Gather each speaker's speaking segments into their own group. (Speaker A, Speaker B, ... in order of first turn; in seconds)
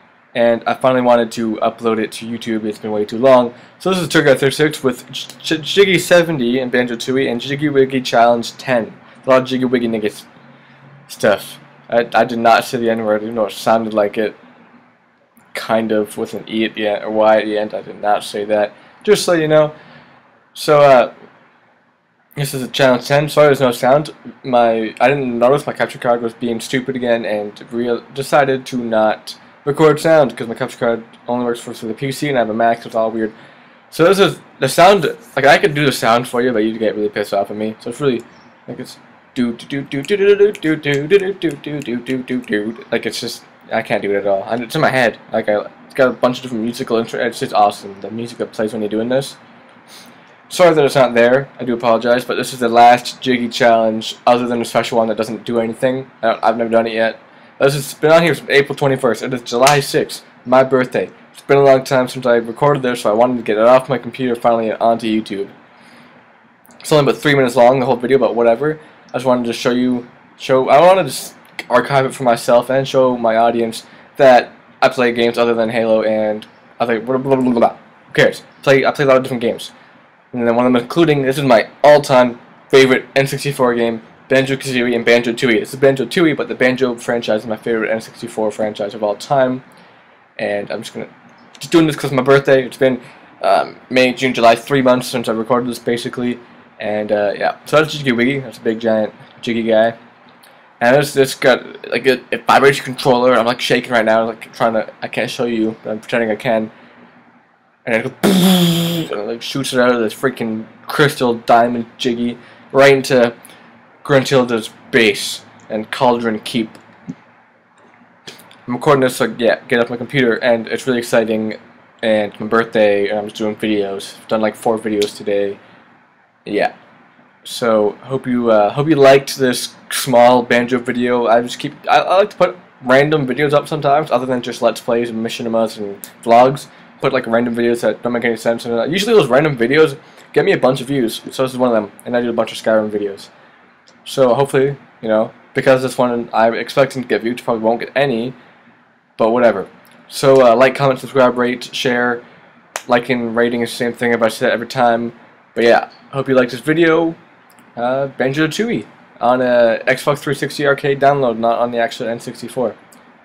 Speaker A: 0.3-10.3, 11.1-14.4, 15.5-19.7, 20.5-21.1, 22.4-33.3, 33.9-49.4, 50.5-65.5, 66.8-79.7, 80.3-89.6, 90.4-100.0, 100.8-106.7, 107.8-113.3, 114.0-116.8, 118.7-125.6, 126.5-126.7, 127.5-143.3, 144.1-148.3, 149.2-152.2, 152.9-157.2, 157.8-162.8